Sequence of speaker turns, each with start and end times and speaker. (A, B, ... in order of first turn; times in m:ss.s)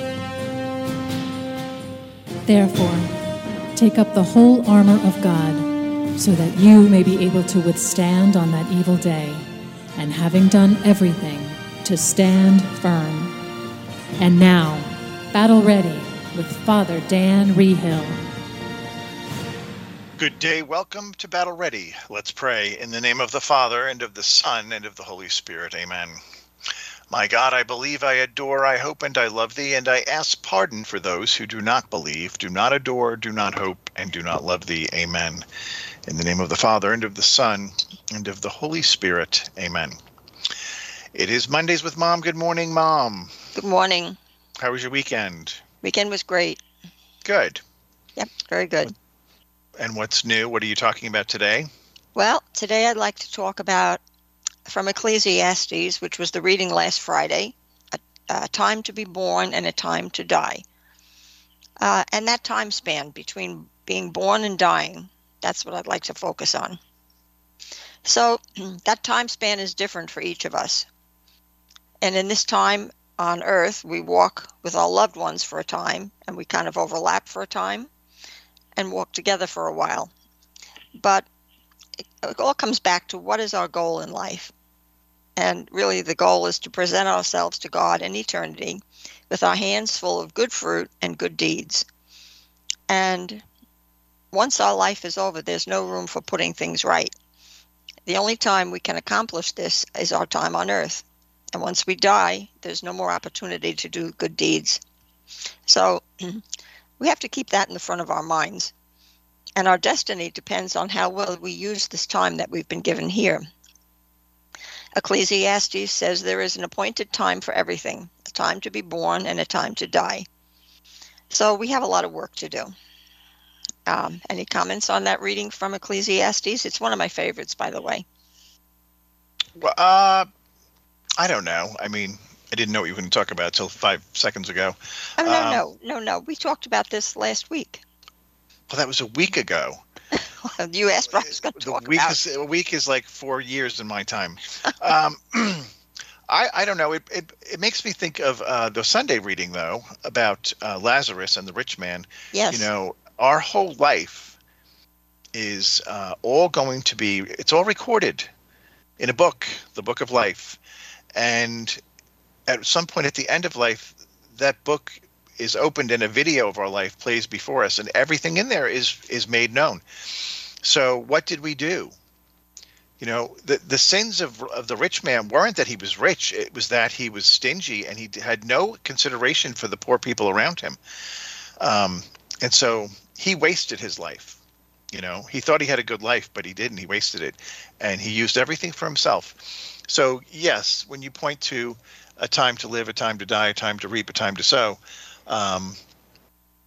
0:02.4-0:03.1 A
0:03.7-0:13.3 A
0:14.2-0:18.2 A
0:20.2-0:26.2 B
0:27.1-0:35.4 B
0:36.0-0:40.0 B
0:41.1-0:43.3 B
0:43.5-0:44.2 C
0:44.6-0:45.6 B
0:45.8-0:46.6 C
0:47.2-0:47.6 B
0:48.2-0:48.9 C
0:49.8-0:51.7 B
0:52.2-0:54.0 C
0:54.6-1:00.6 C
1:01.8-1:06.8 C
1:08.0-1:10.9 C
1:12.0-1:17.9 C
1:18.8-1:20.1 C
1:20.9-1:21.3 C
1:22.2-1:24.5 C
1:25.4-1:31.8 C
1:32.9-1:33.4 C
1:34.3-1:37.1 C
1:38.0-1:44.8 C
1:45.7-1:46.4 C
1:47.0-1:48.7 C
1:49.6-1:53.4 C
1:55.0-2:00.3 C
2:01.3-2:02.7 C
2:03.8-2:08.0 C
2:09.6-2:10.3 B
2:11.2-2:15.6 B
2:15.2-2:17.8 C
2:18.7-2:19.8 B
2:20.2-2:22.2 C
2:21.3-2:25.7 B
2:26.3-2:34.4 B
2:32.3-2:32.7 C
2:35.3-2:38.3 B
2:39.0-2:40.6 B
2:41.1-2:41.8 B
2:42.5-2:51.9 B
2:53.0-3:00.8 B
3:01.6-3:04.4 B
3:04.9-3:15.8 B